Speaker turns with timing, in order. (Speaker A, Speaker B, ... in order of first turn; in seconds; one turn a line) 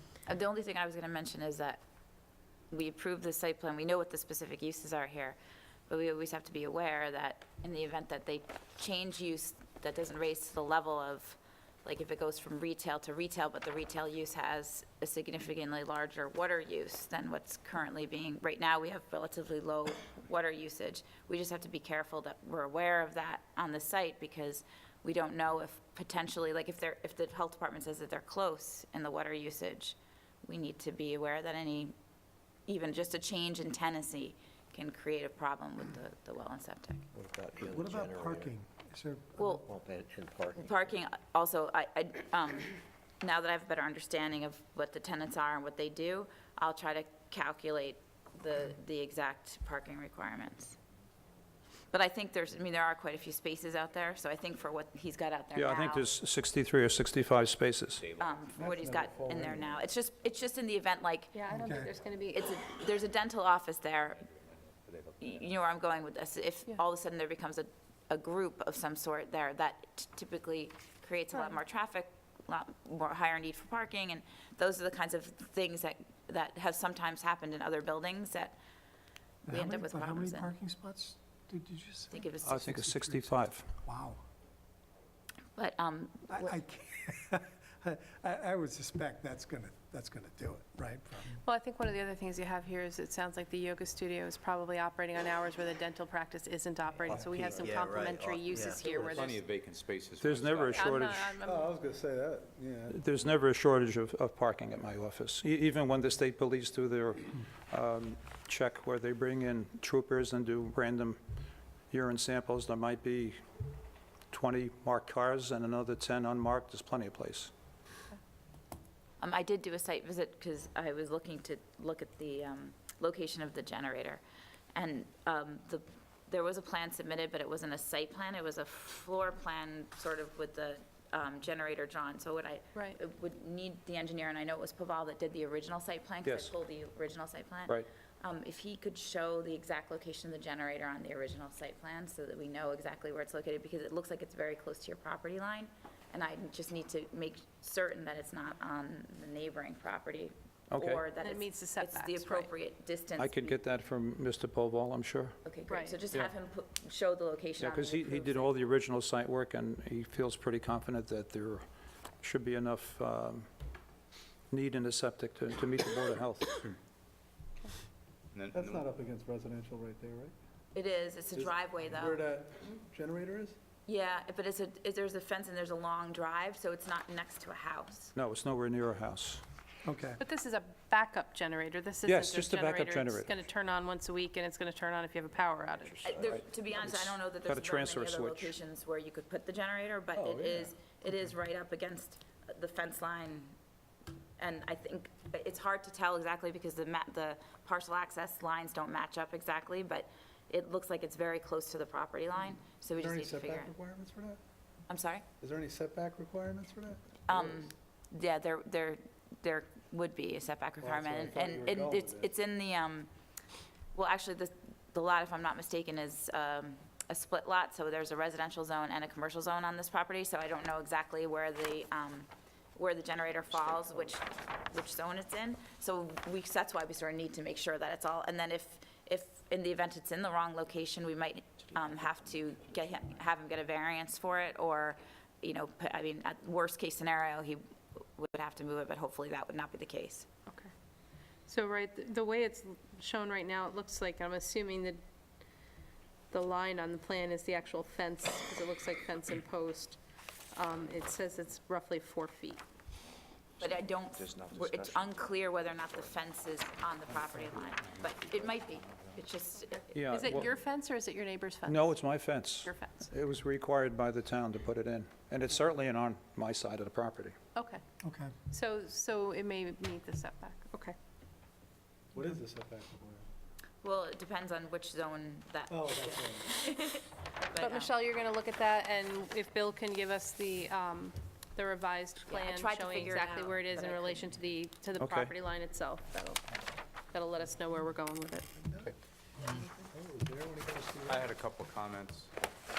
Speaker A: 0.3-1.8
Speaker A: 2.7-5.4
Speaker A: 5.9-31.9
Speaker A: 32.7-37.1
Speaker B: 37.1-38.5
Speaker C: 37.6-39.6
Speaker A: 39.4-39.6
Speaker B: 39.7-40.9
Speaker A: 40.6-50.8
Speaker A: 51.9-56.1
Speaker D: 55.5-58.0
Speaker A: 58.2-61.4
Speaker E: 58.6-59.8
Speaker F: 61.3-62.5
Speaker C: 61.5-61.9
Speaker A: 62.3-64.2
Speaker A: 65.2-78.6
Speaker C: 79.5-84.2
Speaker A: 79.5-80.5
Speaker A: 82.1-82.7
Speaker D: 82.4-83.7
Speaker A: 85.6-86.5
Speaker C: 86.3-91.4
Speaker F: 91.4-99.5
Speaker C: 97.1-97.5
Speaker B: 97.2-99.1
Speaker G: 98.8-101.0
Speaker D: 100.2-101.4
Speaker F: 100.7-101.7
Speaker E: 101.4-103.0
Speaker D: 102.9-111.2
Speaker D: 111.9-113.4
Speaker D: 114.3-117.5
Speaker A: 119.2-124.2
Speaker A: 124.8-153.6
Speaker D: 136.3-136.5
Speaker D: 150.7-151.1
Speaker F: 151.2-152.5
Speaker D: 153.2-155.3
Speaker A: 155.4-158.6
Speaker F: 155.7-156.0
Speaker D: 157.6-161.7
Speaker D: 162.2-163.5
Speaker D: 164.5-166.6
Speaker G: 168.3-168.8
Speaker E: 168.5-170.3
Speaker A: 170.7-172.2
Speaker E: 171.3-173.6
Speaker A: 173.9-178.1
Speaker D: 178.2-179.4
Speaker C: 179.8-180.2
Speaker F: 180.2-185.9
Speaker D: 182.1-183.3
Speaker A: 186.0-193.5
Speaker D: 186.2-188.6
Speaker E: 190.2-190.7
Speaker A: 194.4-203.7
Speaker E: 202.9-204.4
Speaker A: 204.9-205.3
Speaker E: 205.4-207.6
Speaker A: 207.3-213.1
Speaker E: 210.8-212.3
Speaker A: 213.9-237.6
Speaker A: 238.2-240.3
Speaker F: 241.5-245.0
Speaker F: 246.3-250.0
Speaker F: 250.5-252.6
Speaker A: 253.6-260.2
Speaker B: 254.3-255.1
Speaker D: 259.9-260.5
Speaker F: 260.1-261.8
Speaker D: 261.7-267.4
Speaker F: 262.6-263.0
Speaker F: 267.6-267.8
Speaker C: 268.0-268.3
Speaker F: 268.5-270.9
Speaker E: 272.1-273.3
Speaker A: 273.8-277.9
Speaker E: 275.7-276.5
Speaker F: 277.6-286.4
Speaker A: 282.3-284.3
Speaker D: 285.0-285.3
Speaker F: 287.1-288.5
Speaker E: 289.9-291.4
Speaker G: 291.1-292.3